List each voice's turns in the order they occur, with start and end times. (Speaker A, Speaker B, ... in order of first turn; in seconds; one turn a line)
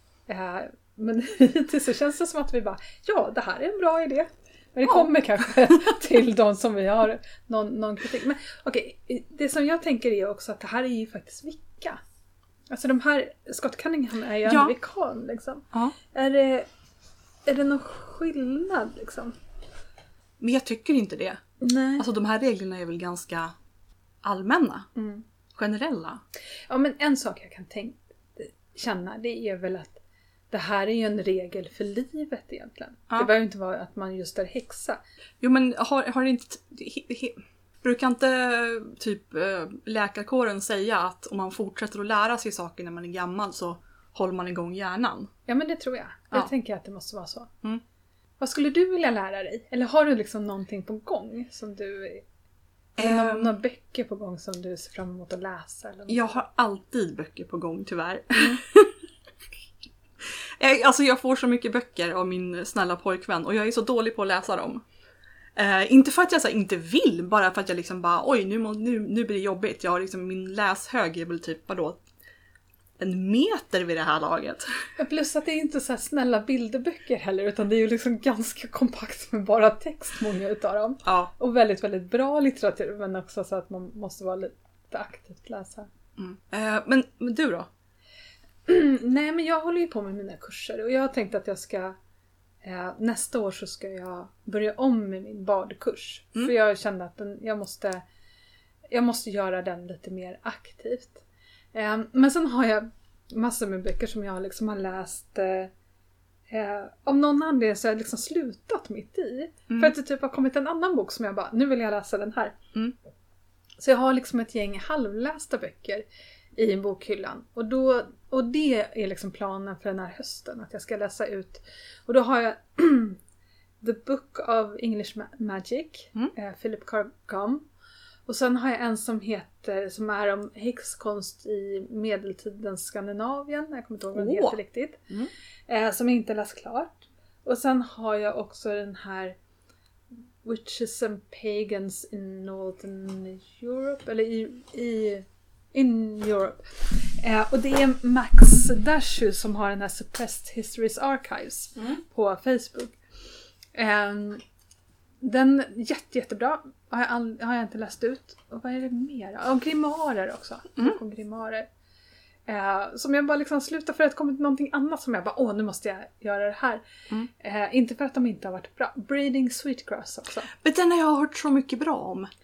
Speaker A: 0.3-12.0
Speaker A: 12.7-16.7
Speaker B: 14.5-14.8
Speaker A: 17.5-19.4
Speaker B: 20.4-21.4
Speaker A: 21.6-22.1
Speaker B: 22.0-23.5
Speaker B: 24.2-24.9
Speaker A: 24.9-25.2
Speaker B: 25.5-26.2
Speaker A: 26.7-30.0
Speaker A: 30.5-35.0
Speaker B: 35.4-45.3
Speaker A: 45.5-47.5
Speaker A: 48.4-52.2
Speaker B: 53.0-53.5
Speaker A: 53.0-56.5
Speaker B: 56.1-58.9
Speaker A: 58.4-58.6
Speaker B: 60.6-64.8
Speaker B: 65.6-72.0
Speaker B: 73.0-74.6
Speaker A: 75.0-85.9
Speaker B: 81.0-81.3
Speaker B: 86.2-87.7
Speaker A: 88.7-92.0
Speaker A: 92.6-98.0
Speaker A: 98.9-105.7
Speaker A: 106.5-112.6
Speaker B: 109.7-109.9
Speaker A: 113.8-123.2
Speaker A: 123.8-127.7
Speaker A: 128.3-135.0
Speaker B: 134.2-134.6
Speaker A: 135.7-139.4
Speaker A: 140.4-152.9
Speaker A: 153.8-154.4
Speaker A: 155.2-161.7
Speaker A: 162.5-166.8
Speaker A: 167.4-170.5
Speaker B: 170.5-172.3